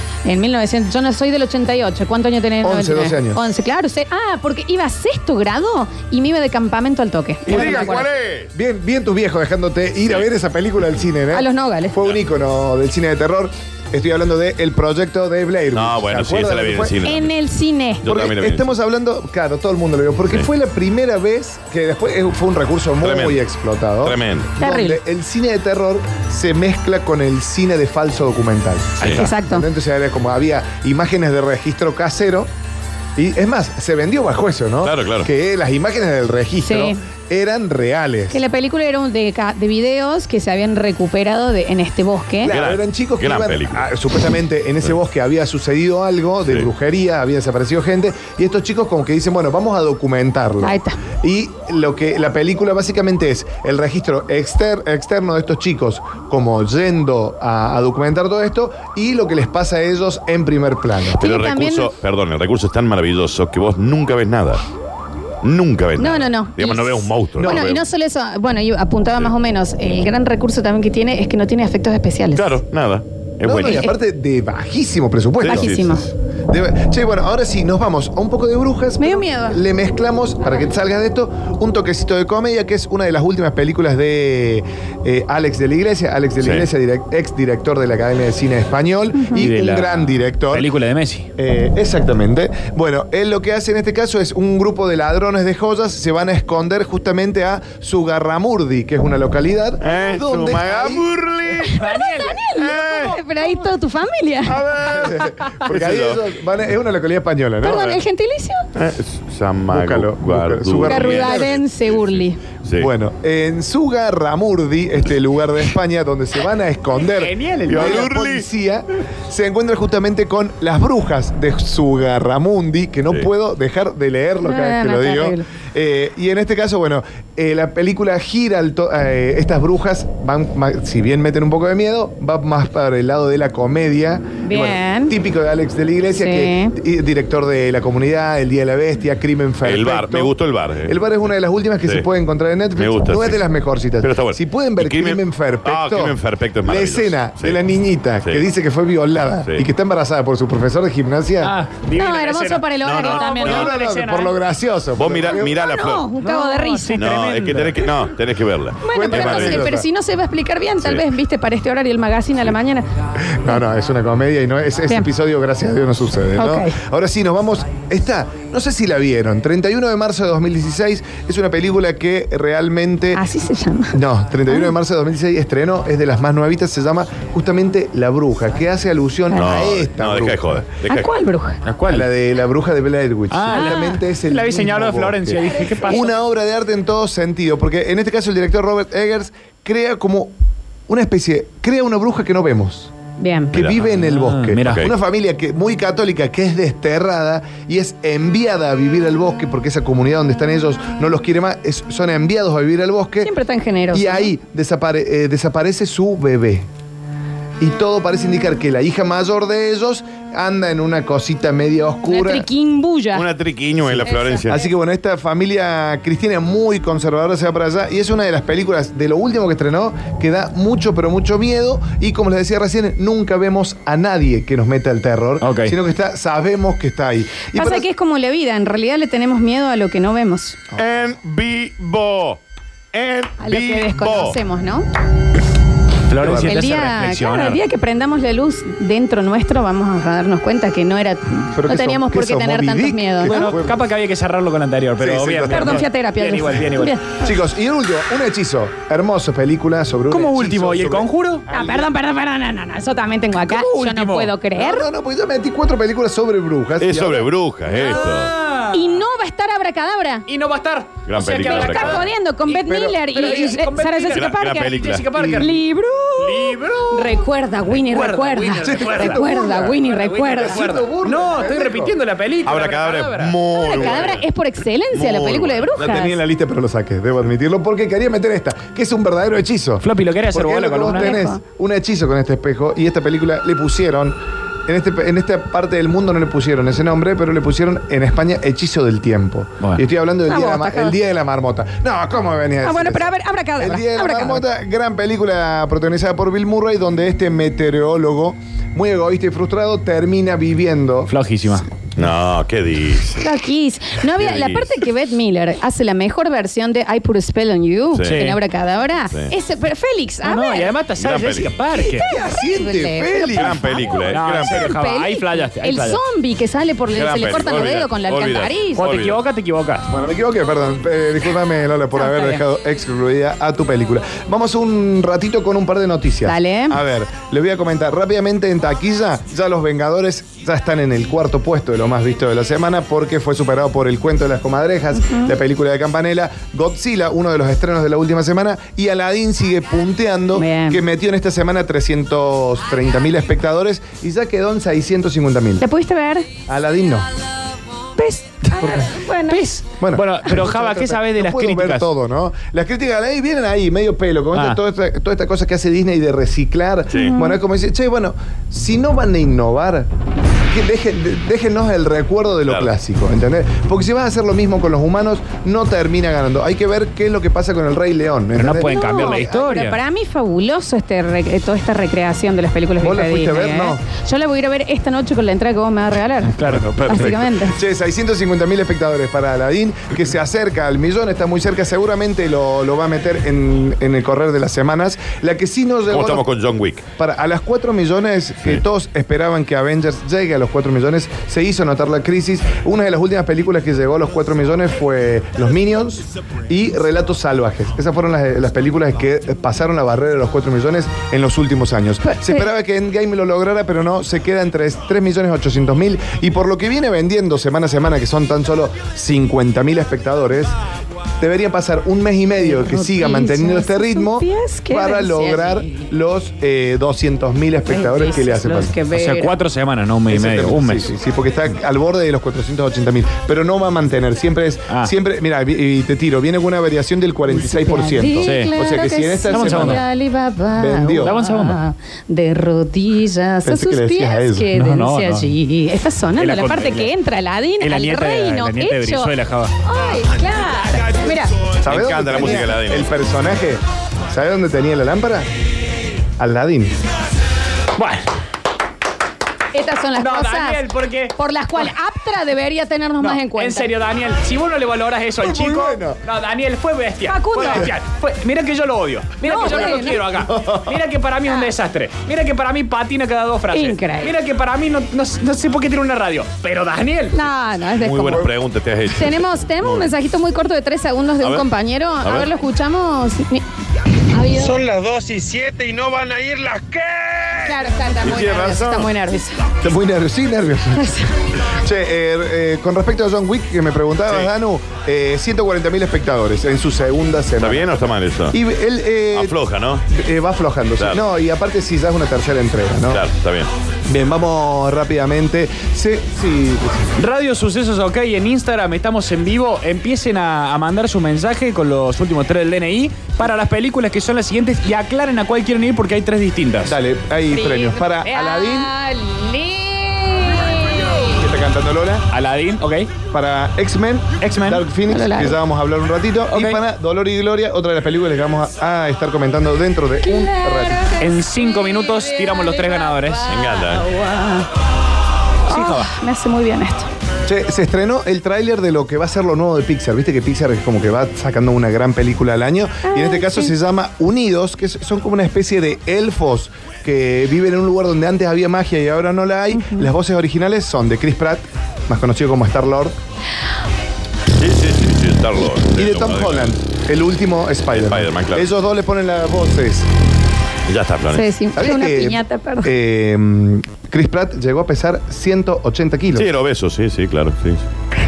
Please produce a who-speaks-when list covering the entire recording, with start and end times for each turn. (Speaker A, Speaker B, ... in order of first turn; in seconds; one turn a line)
Speaker A: 0.2-8.1
Speaker B: 2.6-3.4
Speaker B: 7.5-17.0
Speaker C: 7.5-8.5
Speaker A: 11.3-12.0
Speaker C: 15.7-17.3
Speaker A: 17.0-18.1
Speaker C: 18.0-18.7
Speaker B: 18.0-32.5
Speaker C: 23.0-23.4
Speaker C: 24.0-24.5
Speaker A: 24.6-25.0
Speaker A: 29.1-29.7
Speaker B: 33.1-38.4
Speaker C: 34.8-35.3
Speaker A: 36.6-37.0
Speaker A: 38.3-42.5
Speaker B: 42.4-61.2
Speaker C: 42.4-43.9
Speaker A: 50.6-51.0
Speaker C: 61.2-64.6
Speaker A: 61.2-61.9
Speaker C: 65.4-67.8
Speaker A: 66.0-72.6
Speaker B: 67.4-67.7
Speaker C: 72.3-73.9
Speaker B: 73.4-75.7
Speaker A: 73.6-73.9
Speaker C: 75.4-76.0
Speaker A: 75.5-76.1
Speaker B: 76.5-90.7
Speaker A: 79.0-79.6
Speaker C: 86.4-86.7
Speaker D: 89.4-91.3
Speaker B: 91.4-101.0
Speaker C: 99.8-101.8
Speaker A: 101.7-104.7
Speaker D: 101.8-102.5
Speaker C: 102.6-103.2
Speaker C: 104.6-106.2
Speaker B: 104.6-108.0
Speaker A: 107.6-108.7
Speaker C: 108.7-111.6
Speaker B: 109.7-111.5
Speaker A: 110.8-112.4
Speaker C: 112.6-112.9
Speaker B: 112.8-151.6
Speaker D: 117.0-118.1
Speaker C: 117.7-118.5
Speaker A: 124.4-125.5
Speaker A: 134.4-135.1
Speaker A: 136.1-136.7
Speaker C: 139.6-141.0
Speaker C: 141.8-142.1
Speaker C: 142.8-143.5
Speaker C: 144.0-147.6
Speaker D: 151.4-154.3
Speaker A: 151.9-153.7
Speaker C: 152.8-153.7
Speaker B: 153.4-155.6
Speaker C: 154.9-156.1
Speaker A: 155.4-157.1
Speaker D: 156.2-157.9
Speaker C: 156.9-159.7
Speaker A: 158.8-162.9
Speaker B: 158.9-159.8
Speaker C: 160.8-161.1
Speaker B: 163.2-173.2
Speaker A: 166.4-166.8
Speaker A: 173.1-174.7
Speaker B: 173.9-180.7
Speaker C: 179.3-181.1
Speaker A: 180.9-181.6
Speaker D: 181.6-182.1
Speaker B: 181.9-190.3
Speaker D: 183.3-186.1
Speaker A: 183.5-184.0
Speaker A: 185.5-186.0
Speaker B: 190.9-192.9
Speaker A: 193.2-193.6
Speaker B: 193.5-203.3
Speaker C: 193.5-193.8
Speaker D: 193.9-194.9
Speaker C: 194.7-194.9
Speaker A: 203.2-204.3
Speaker B: 203.9-206.7
Speaker B: 207.6-212.4
Speaker A: 212.1-213.2
Speaker C: 213.1-214.6
Speaker A: 214.0-214.5
Speaker B: 214.5-227.8
Speaker D: 225.4-225.7
Speaker A: 227.5-230.6
Speaker C: 230.8-232.4
Speaker C: 232.9-234.4
Speaker A: 233.4-234.9
Speaker D: 236.1-237.6
Speaker B: 236.2-236.6
Speaker A: 236.4-243.5
Speaker B: 241.5-243.8
Speaker D: 243.2-247.0
Speaker B: 245.0-245.8
Speaker A: 245.5-247.3
Speaker B: 247.2-251.9
Speaker D: 250.1-251.5
Speaker A: 251.5-254.9
Speaker D: 253.4-254.3
Speaker B: 254.6-257.3
Speaker C: 256.8-258.3
Speaker D: 257.7-259.0
Speaker A: 258.7-260.2
Speaker D: 260.3-265.6
Speaker C: 261.1-262.1
Speaker A: 261.3-264.7
Speaker B: 262.6-263.4
Speaker C: 264.1-265.2
Speaker B: 265.1-265.5
Speaker A: 265.2-270.7
Speaker D: 266.2-273.4
Speaker B: 268.6-272.0
Speaker C: 272.4-274.3
Speaker A: 273.4-276.2
Speaker C: 274.9-275.7
Speaker B: 275.8-301.1
Speaker D: 279.8-281.2
Speaker A: 280.8-281.4
Speaker A: 290.3-291.0
Speaker A: 292.6-294.4
Speaker D: 301.1-301.6
Speaker C: 301.9-303.3
Speaker A: 303.2-310.8
Speaker C: 304.1-304.8
Speaker C: 307.9-308.2
Speaker D: 308.0-308.4
Speaker D: 310.2-312.1
Speaker C: 310.9-311.5
Speaker B: 311.7-313.9
Speaker A: 311.7-313.9
Speaker C: 313.3-314.8
Speaker D: 314.0-316.0
Speaker A: 314.5-318.9
Speaker C: 316.9-319.2
Speaker D: 318.7-319.9
Speaker B: 319.9-345.6
Speaker A: 321.9-322.4
Speaker A: 326.2-326.8
Speaker A: 340.3-340.8
Speaker A: 345.6-346.3
Speaker B: 346.5-347.1
Speaker A: 348.0-349.4
Speaker B: 348.6-348.9
Speaker D: 349.3-351.9
Speaker B: 349.8-359.9
Speaker D: 354.3-354.6
Speaker C: 356.9-357.2
Speaker A: 356.9-357.4
Speaker B: 360.5-369.4
Speaker C: 362.4-362.7
Speaker D: 368.4-369.8
Speaker A: 368.6-377.6
Speaker B: 372.8-373.8
Speaker D: 376.3-377.0
Speaker B: 376.4-386.3
Speaker C: 385.9-386.8
Speaker B: 386.9-410.5
Speaker B: 411.2-418.8
Speaker A: 412.4-415.8
Speaker A: 417.7-419.4
Speaker D: 418.9-420.9
Speaker B: 420.1-429.8
Speaker A: 427.4-439.1
Speaker D: 428.2-428.5
Speaker D: 429.3-429.8
Speaker B: 430.5-431.2
Speaker D: 431.0-431.6
Speaker B: 433.4-434.5
Speaker D: 434.6-435.3
Speaker D: 436.1-436.9
Speaker D: 437.6-439.5
Speaker A: 439.6-441.5
Speaker C: 441.6-442.9
Speaker B: 441.6-443.6
Speaker B: 444.1-445.3
Speaker B: 446.2-446.7
Speaker D: 447.8-448.1
Speaker A: 449.5-453.7
Speaker D: 450.0-451.1
Speaker D: 453.0-467.2
Speaker B: 455.2-456.0
Speaker A: 457.0-457.7
Speaker A: 459.2-460.3
Speaker B: 460.2-460.8
Speaker A: 463.5-464.1
Speaker A: 467.1-468.3
Speaker C: 467.7-469.9
Speaker A: 468.9-473.4
Speaker C: 471.2-471.5
Speaker C: 472.0-472.3
Speaker A: 474.1-474.6
Speaker E: 474.5-477.4
Speaker A: 477.4-479.5
Speaker C: 478.0-478.9
Speaker B: 479.6-489.4
Speaker A: 480.7-481.1
Speaker C: 487.4-488.4
Speaker C: 489.1-489.9
Speaker B: 489.9-493.0
Speaker C: 492.9-493.5
Speaker B: 493.9-496.9
Speaker D: 497.0-506.8
Speaker B: 506.6-508.7
Speaker A: 507.3-511.1
Speaker B: 511.1-512.1
Speaker D: 512.1-512.9
Speaker B: 513.1-520.9
Speaker D: 514.2-514.7
Speaker A: 514.9-515.4
Speaker D: 516.3-516.6
Speaker A: 520.0-524.5
Speaker D: 521.0-523.3
Speaker C: 523.3-523.9
Speaker A: 525.5-526.9
Speaker D: 525.5-525.9
Speaker B: 527.2-542.9
Speaker A: 532.9-533.5
Speaker A: 539.6-539.9
Speaker C: 544.4-546.6
Speaker B: 545.7-549.9
Speaker C: 547.7-548.5
Speaker C: 550.7-551.3
Speaker A: 551.1-552.7
Speaker B: 551.5-556.3
Speaker C: 556.1-557.6